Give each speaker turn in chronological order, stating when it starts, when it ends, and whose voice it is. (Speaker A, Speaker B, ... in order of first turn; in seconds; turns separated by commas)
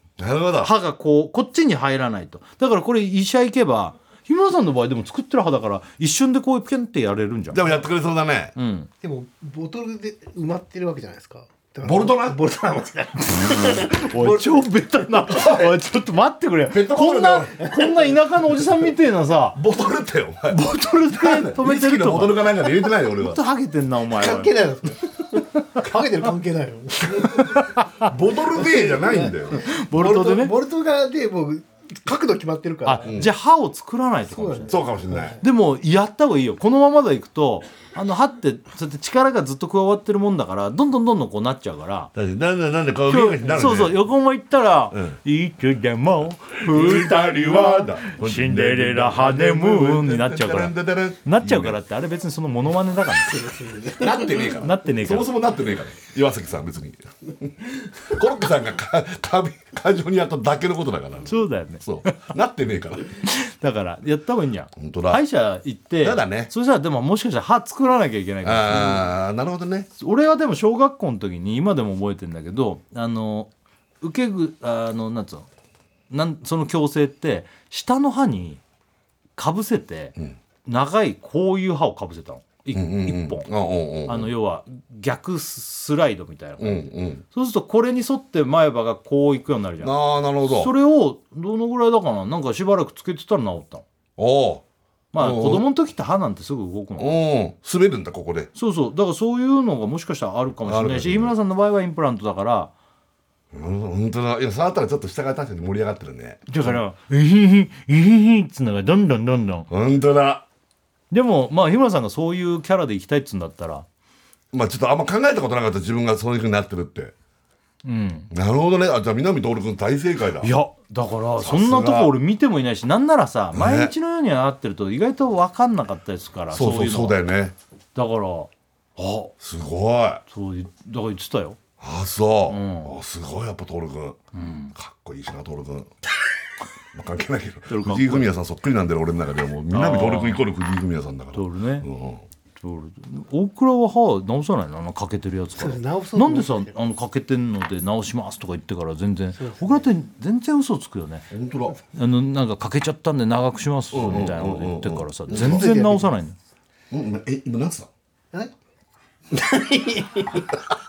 Speaker A: 0.2-0.7, Speaker B: 0.6-7.7, Speaker A: 7.5-8.6, Speaker B: 8.6-8.9, Speaker C: 9.0-14.5, Speaker A: 11.8-12.4, Speaker B: 13.2-19.6, Speaker A: 15.3-15.7, Speaker A: 16.7-17.5, Speaker C: 17.6-18.0, Speaker A: 19.6-20.6, Speaker B: 20.5-24.5, Speaker A: 21.1-23.4, Speaker C: 24.1-27.7, Speaker B: 27.3-28.1, Speaker A: 28.0-29.6, Speaker C: 28.5-33.1, Speaker B: 29.5-30.5, Speaker B: 32.9-34.8, Speaker A: 33.0-33.3, Speaker C: 34.3-35.4, Speaker A: 34.7-35.4, Speaker B: 35.4-42.1, Speaker A: 42.1-44.0, Speaker B: 43.1-53.6, Speaker A: 46.6-51.8, Speaker C: 53.3-54.4, Speaker A: 54.0-63.1, Speaker B: 54.6-55.3, Speaker B: 61.3-62.3, Speaker B: 63.2-69.1, Speaker A: 64.8-65.2, Speaker A: 66.0-66.5, Speaker A: 68.4-69.9, Speaker B: 70.0-73.5, Speaker B: 74.0-75.5, Speaker B: 76.1-78.6, Speaker B: 79.4-83.5, Speaker A: 82.7-84.3, Speaker B: 84.1-90.0, Speaker A: 86.6-87.2, Speaker A: 89.8-90.7, Speaker B: 90.5-93.8, Speaker A: 94.2-94.6, Speaker B: 95.1-97.2, Speaker A: 95.2-95.7, Speaker A: 97.0-98.5, Speaker B: 98.5-102.7, Speaker A: 100.7-101.3, Speaker A: 103.5-106.8, Speaker B: 106.5-109.7, Speaker A: 109.7-110.5, Speaker B: 111.1-113.9, Speaker A: 114.5-117.1, Speaker B: 117.8-118.3, Speaker A: 118.3-120.5, Speaker B: 120.4-127.2, Speaker A: 121.4-122.1, Speaker A: 123.5-123.9, Speaker A: 126.5-127.5, Speaker B: 128.0-129.3, Speaker A: 129.4-130.2, Speaker B: 130.3-131.6, Speaker A: 131.8-134.2, Speaker B: 132.5-133.0, Speaker B: 134.3-134.7, Speaker A: 134.8-136.0, Speaker A: 136.9-142.2, Speaker B: 137.7-138.3, Speaker B: 139.7-140.4, Speaker B: 141.3-141.9, Speaker B: 142.6-151.3, Speaker C: 145.6-146.7, Speaker C: 149.4-149.8, Speaker A: 151.3-151.8, Speaker B: 151.9-156.4, Speaker A: 153.9-155.7, Speaker C: 155.3-156.2, Speaker A: 156.9-157.9, Speaker C: 159.3-160.6